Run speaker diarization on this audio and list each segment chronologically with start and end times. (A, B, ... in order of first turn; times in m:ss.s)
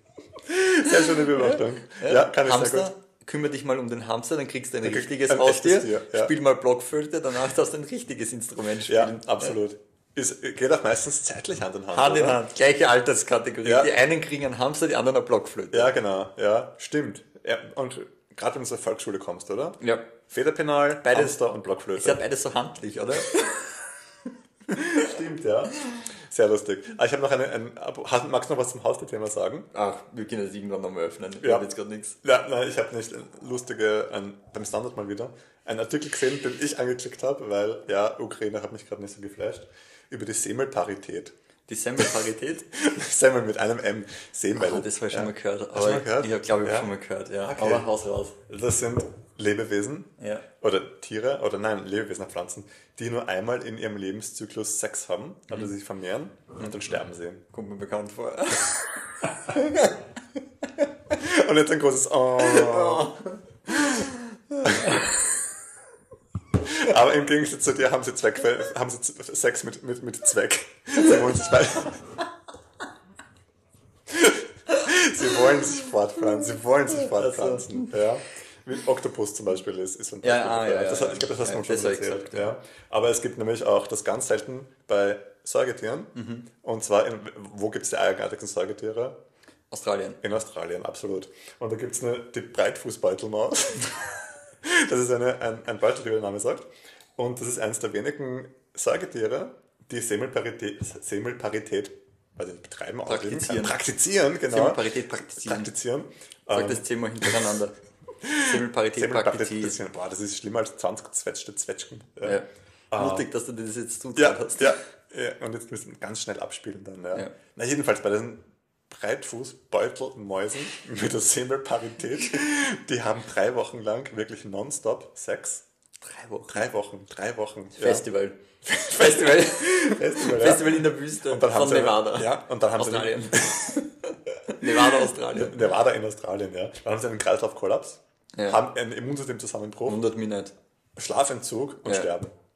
0:00.5-0:02.9 A
0:01.0-0:09.5 B
0:04.8-0:06.3 A
0:08.9-0:12.4 A
0:11.9-0:15.9 B
0:13.6-0:13.9 A
0:15.7-0:22.2 A
0:21.0-0:21.4 B
0:21.9-0:23.9 B
0:24.7-0:29.7 A
0:29.7-0:32.2 B
0:31.4-0:31.7 A
0:32.2-0:41.3 A
0:41.7-0:42.7 B
0:42.0-0:46.9 A
0:44.5-0:48.4 B
0:47.4-0:47.9 A
0:48.5-0:57.4 A
0:50.2-0:50.5 B
0:57.5-0:59.3 B
1:01.1-1:03.2 A
1:02.4-1:03.4 B
1:03.7-1:05.2 A
1:06.6-1:12.2 A
1:14.1-1:29.2 A
1:17.1-1:17.9 B
1:20.2-1:22.6 B
1:26.1-1:26.4 B
1:29.7-1:30.2 B
1:30.2-1:44.8 A
1:43.1-1:43.8 B
1:44.5-1:45.7 B
1:45.4-1:47.6 A
1:46.5-1:47.7 B
1:48.2-1:53.3 A
1:48.3-1:49.8 B
1:52.2-1:54.8 B
1:54.2-2:05.6 A
2:06.0-2:06.7 B
2:06.5-2:08.0 A
2:07.8-2:15.7 B
2:08.6-2:13.8 A
2:14.5-2:20.0 A
2:18.3-2:18.6 B
2:19.8-2:20.5 B
2:21.0-2:22.3 A